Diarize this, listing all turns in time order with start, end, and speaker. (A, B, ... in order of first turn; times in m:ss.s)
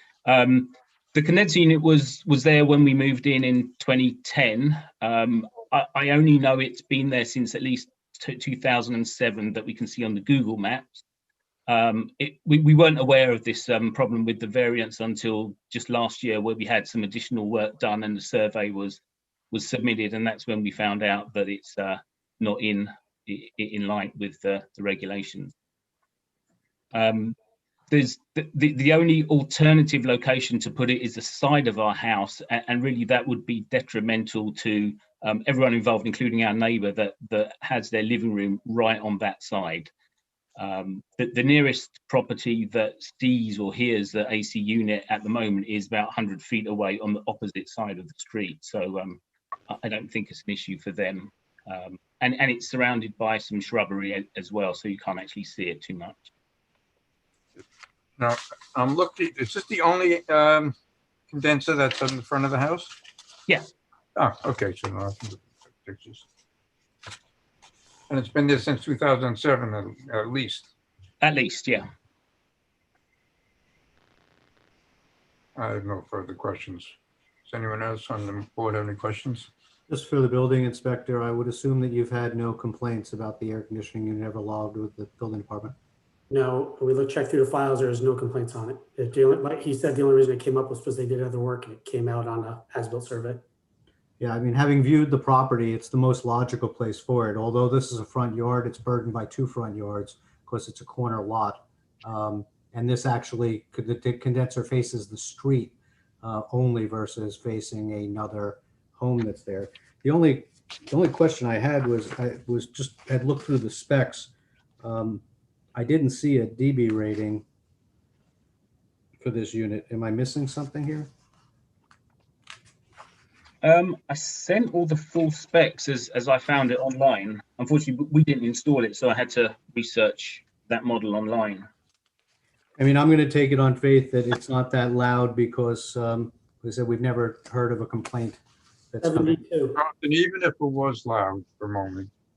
0:00.2-0:11.0 A
0:11.7-0:19.0 A
0:19.5-0:25.5 A
0:26.9-0:27.4 A
0:27.9-0:39.9 A
0:40.6-0:56.2 A
0:58.2-1:00.8 B
1:01.3-1:03.0 B
1:04.2-1:06.2 B
1:08.1-1:10.7 B
1:11.2-1:11.9 A
1:15.6-1:16.9 B
1:17.5-1:19.5 B
1:19.9-1:25.7 C
1:26.3-1:33.4 D
1:34.2-1:54.3 C
1:54.8-1:55.2 C
1:55.8-1:57.4 C
1:59.2-2:01.1 C
2:03.6-2:11.7 A
2:12.8-2:18.4 C
2:18.9-2:19.4 C
2:19.0-2:19.8 D
2:19.8-2:22.1 B